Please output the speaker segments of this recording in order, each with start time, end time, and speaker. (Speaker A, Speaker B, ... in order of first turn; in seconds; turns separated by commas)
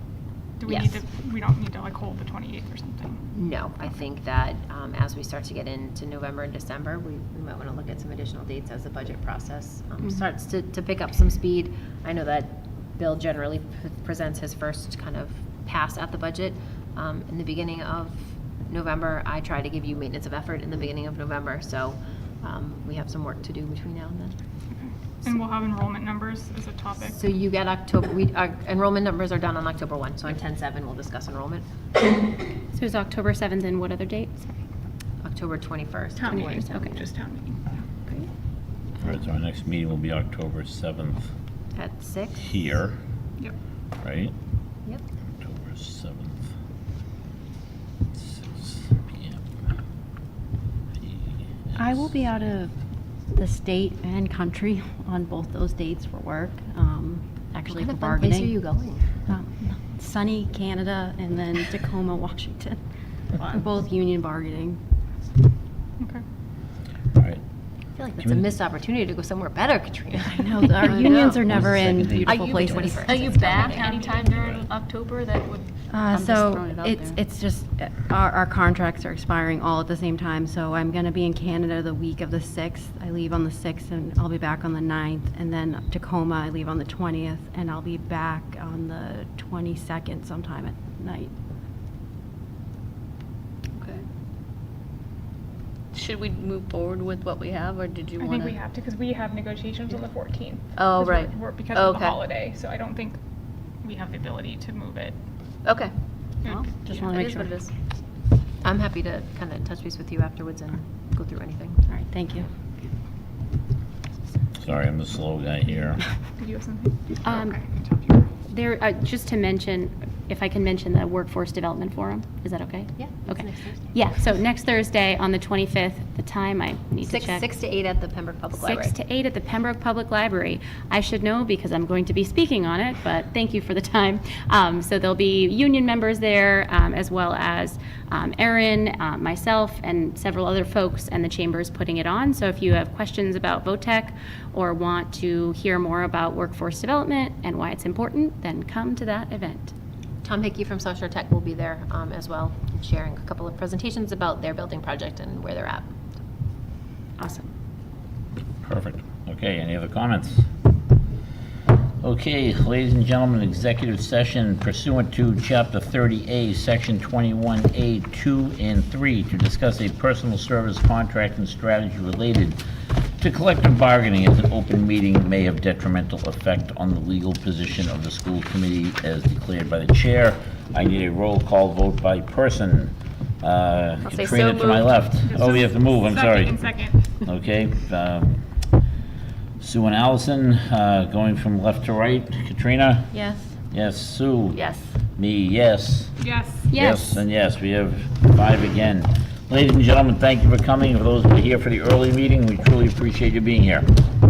Speaker A: 0.6-3.2, Speaker B: 0.7-1.0, Speaker B: 3.3-24.4, Speaker C: 10.0-10.2, Speaker A: 24.7-27.2, Speaker B: 27.0-31.6, Speaker C: 32.7-34.6, Speaker B: 35.2-36.8, Speaker A: 36.1-37.6, Speaker C: 36.3-37.0, Speaker D: 39.0-41.3, Speaker B: 41.7-42.8, Speaker D: 42.4-43.0, Speaker D: 44.0-44.3, Speaker D: 45.4-46.5, Speaker D: 48.2-49.4, Speaker D: 51.0-52.1, Speaker E: 51.8-52.7, Speaker E: 53.3-58.6, Speaker B: 57.7-59.1, Speaker E: 59.3-62.8, Speaker E: 63.4-64.8, Speaker D: 67.2-67.4, Speaker B: 68.0-71.4, Speaker D: 68.2-68.5, Speaker E: 70.2-73.2, Speaker D: 71.3-73.0, Speaker F: 72.3-77.2, Speaker B: 72.5-74.1, Speaker A: 73.5-74.6, Speaker E: 75.9-91.3, Speaker F: 93.8-94.0, Speaker F: 95.9-98.6, Speaker A: 98.2-103.2, Speaker F: 100.8-102.2, Speaker A: 103.8-105.1, Speaker F: 105.6-105.9, Speaker A: 106.4-107.1, Speaker E: 106.5-107.6, Speaker F: 107.1-107.7, Speaker B: 108.6-111.8, Speaker E: 111.9-112.5, Speaker D: 114.6-116.0, Speaker A: 116.4-117.2, Speaker C: 117.2-117.6, Speaker C: 118.4-127.5, Speaker B: 123.0-123.9, Speaker B: 127.0-128.9, Speaker C: 128.5-149.7, Speaker B: 150.2-155.9, Speaker C: 157.2-157.5, Speaker D: 158.6-160.4, Speaker D: 162.0-172.6, Speaker D: 173.2-188.4, Speaker F: 184.0-185.0, Speaker A: 185.2-187.1, Speaker D: 189.6-193.2, Speaker E: 193.1-193.5, Speaker D: 193.7-194.6, Speaker D: 195.2-196.1, Speaker A: 196.2-196.7, Speaker C: 196.7-197.2, Speaker D: 196.7-203.9